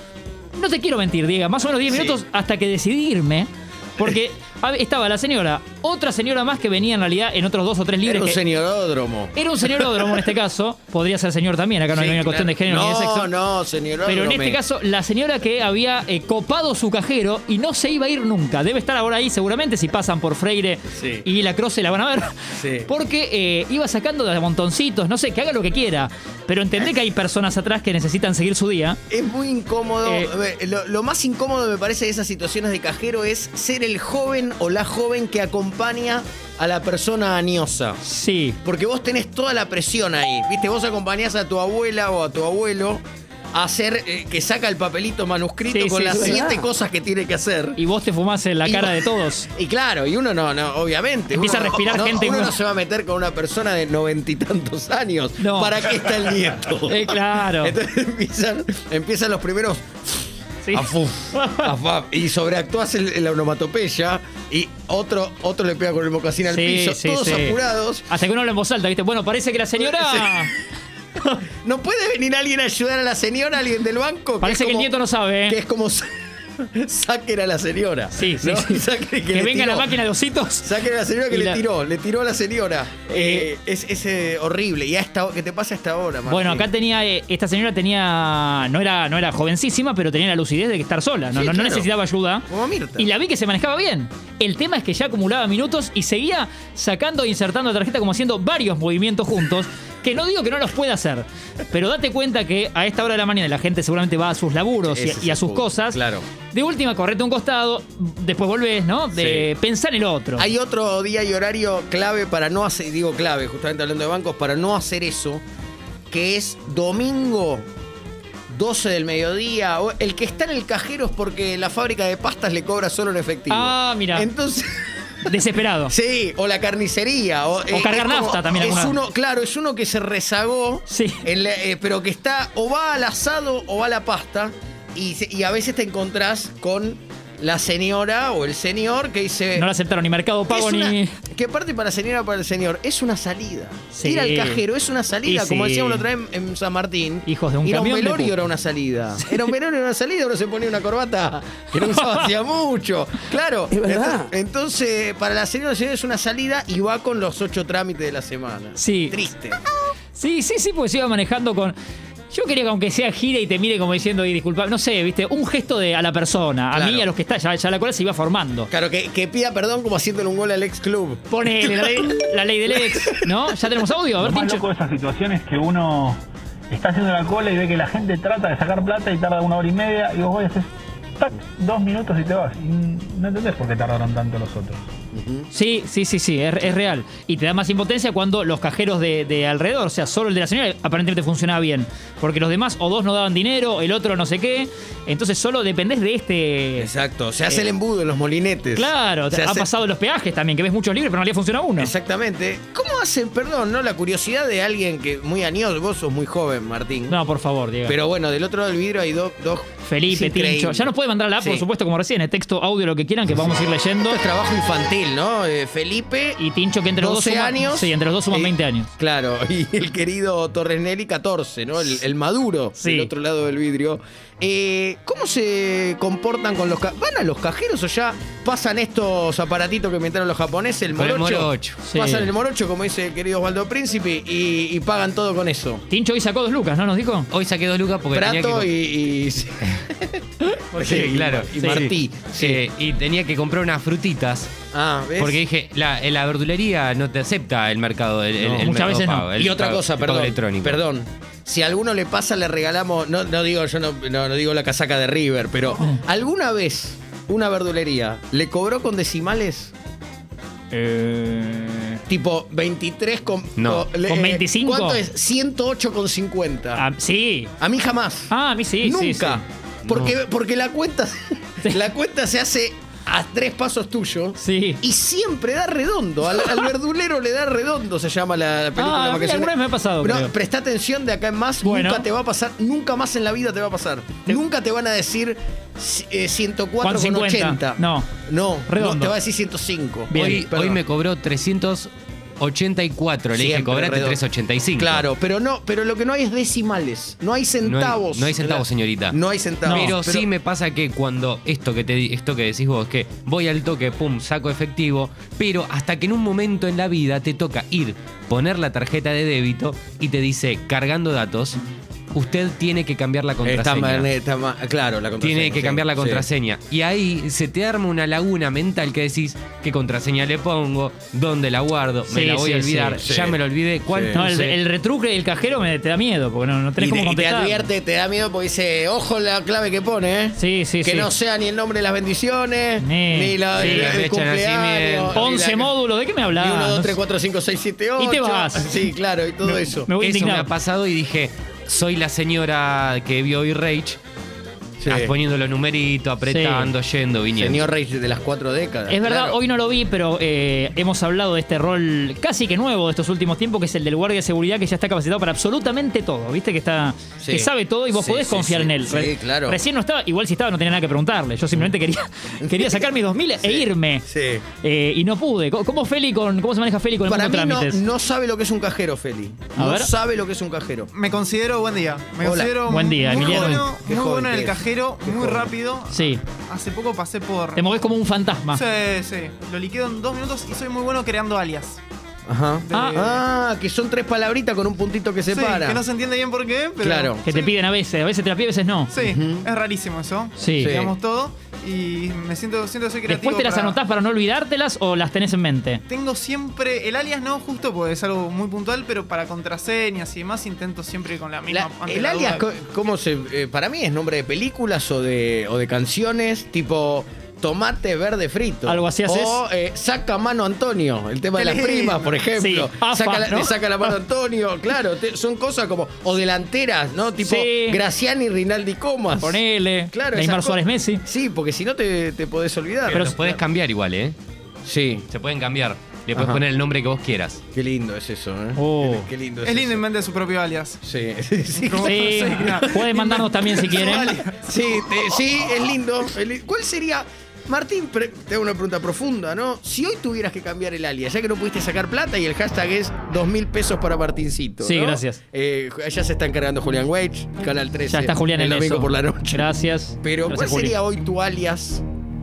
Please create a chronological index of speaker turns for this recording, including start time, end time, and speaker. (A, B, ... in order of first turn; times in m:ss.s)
0:00.6-0:08.4 A
0:01.9-0:02.2 B
0:08.0-0:10.2 B
0:09.3-0:13.3 A
0:11.9-0:14.6 B
0:14.0-0:22.3 A
0:20.9-0:21.2 B
0:22.6-0:22.9 B
0:22.8-0:29.0 A
0:29.1-0:38.0 B
0:30.0-0:30.3 A
0:38.0-0:38.6 A
0:38.6-0:43.0 B
0:43.5-0:47.8 B
0:45.7-0:46.4 A
0:47.8-0:49.5 A
0:48.6-1:08.1 B
0:51.3-0:52.5 A
0:55.4-0:55.7 A
0:56.9-0:57.8 A
1:00.6-1:01.7 A
1:06.5-1:07.6 A
1:08.1-1:10.5 A
1:09.8-1:10.5 B
1:11.6-1:14.9 B
1:14.4-1:15.6 A
1:15.5-1:19.9 B
1:18.1-1:20.7 A
1:20.6-1:26.7 B
1:21.3-1:21.6 A
1:23.1-1:23.5 A
1:26.3-1:32.4 A
1:31.3-1:31.9 B
1:32.5-1:33.1 B
1:33.0-1:46.0 A
1:44.8-1:46.2 B
1:46.5-1:50.5 A
1:49.1-1:49.4 B
1:50.4-1:55.4 B
1:56.1-1:57.6 B
1:58.5-2:05.3 B
2:03.5-2:04.3 A
2:05.2-2:05.9 A
2:05.9-2:19.7 B
2:07.7-2:09.0 A
2:10.9-2:11.2 A
2:19.5-2:21.1 A
2:20.5-2:39.6 B
2:23.9-2:24.6 A
2:25.2-2:26.0 A
2:27.2-2:28.4 A
2:31.8-2:32.3 A
2:38.8-2:39.2 A
2:40.1-2:41.7 A
2:42.3-2:48.7 A
2:46.7-2:47.1 B
2:48.7-2:52.1 B
2:51.3-2:54.6 A
2:52.7-2:53.3 B
2:54.2-3:04.8 C
3:05.1-3:05.5 B
3:05.5-3:16.9 A
3:16.8-3:19.7 B
3:18.7-3:21.9 A
3:21.8-3:27.2 B
3:27.1-3:28.0 A
3:27.8-3:31.6 B
3:29.8-3:34.2 A
3:33.4-3:36.4 B
3:36.4-3:38.9 A
3:37.0-3:55.8 B
3:42.8-3:43.1 A
3:50.9-3:51.8 D
3:51.8-3:52.3 A
3:55.9-3:57.3 A
3:57.3-3:58.7 D
3:58.1-4:02.6 B
4:00.8-4:04.5 D
4:01.6-4:01.8 A
4:04.7-4:05.4 B
4:05.2-4:10.8 D
4:08.4-4:08.7 B
4:08.6-4:09.3 A
4:09.3-4:19.7 B
4:20.7-4:22.0 A
4:22.1-4:26.8 B
4:23.6-4:23.8 D
4:24.1-4:25.0 A
4:26.8-4:27.5 A
4:27.6-4:50.8 B
4:28.3-4:29.4 A
4:29.9-4:30.1 D
4:34.4-4:34.8 A
4:38.8-4:40.3 A
4:41.6-4:42.0 A
4:46.8-4:48.1 A
4:48.7-4:49.2 A
4:50.1-4:50.4 A
4:50.1-4:55.0 D
4:53.3-4:54.2 B
4:54.7-5:00.3 B
4:57.6-5:11.6 D
4:59.6-4:59.9 A
5:12.1-5:14.1 D
5:13.4-5:16.3 B
5:15.2-5:24.6 D
5:22.1-5:23.0 A
5:23.0-5:24.2 B
5:24.1-5:27.6 A
5:26.8-5:35.7 B
5:30.4-5:31.1 A
5:32.8-5:34.0 A
5:33.5-5:35.2 D
5:35.1-5:37.0 A
5:36.4-5:39.9 B
5:38.0-5:38.7 A
5:39.5-5:40.5 A
5:40.0-5:44.0 D
5:44.8-5:45.2 B
5:44.9-5:47.6 D
5:46.2-5:46.7 A
5:47.3-5:49.4 B
5:48.9-6:04.0 A
5:57.2-5:59.6 B
6:02.4-6:02.9 B
6:03.4-6:04.4 B
6:04.6-6:07.8 A
6:07.0-6:10.9 B
6:09.6-6:09.9 A
6:10.9-6:17.8 E
6:12.2-6:15.5 B
6:12.7-6:13.6 A
6:15.9-6:16.2 A
6:17.6-6:18.6 A
6:18.5-6:21.8 E
6:22.2-6:25.8 B
6:22.7-6:23.1 A
6:25.3-6:27.5 E
6:26.8-6:27.2 B
6:27.2-6:28.9 A
6:28.9-6:33.8 E
6:29.0-6:29.5 B
6:30.4-6:30.8 A
6:30.6-6:30.9 B
6:33.1-6:35.8 A
6:35.9-6:42.4 E
6:41.5-7:03.4 B
6:48.6-6:49.4 A
6:52.4-6:53.9 A
6:57.2-6:57.8 A
6:59.2-7:01.0 A
7:02.9-7:04.2 D
7:04.6-7:05.0 B
7:05.1-7:07.4 D
7:06.1-7:06.4 B
7:07.5-7:09.8 B
7:08.6-7:09.1 A
7:09.4-7:10.8 E
7:10.8-7:12.9 B
7:11.7-7:13.3 E
7:11.8-7:14.2 A
7:13.6-7:29.5 B
7:24.6-7:25.2 A
7:27.9-7:30.8 A
7:30.0-7:31.8 B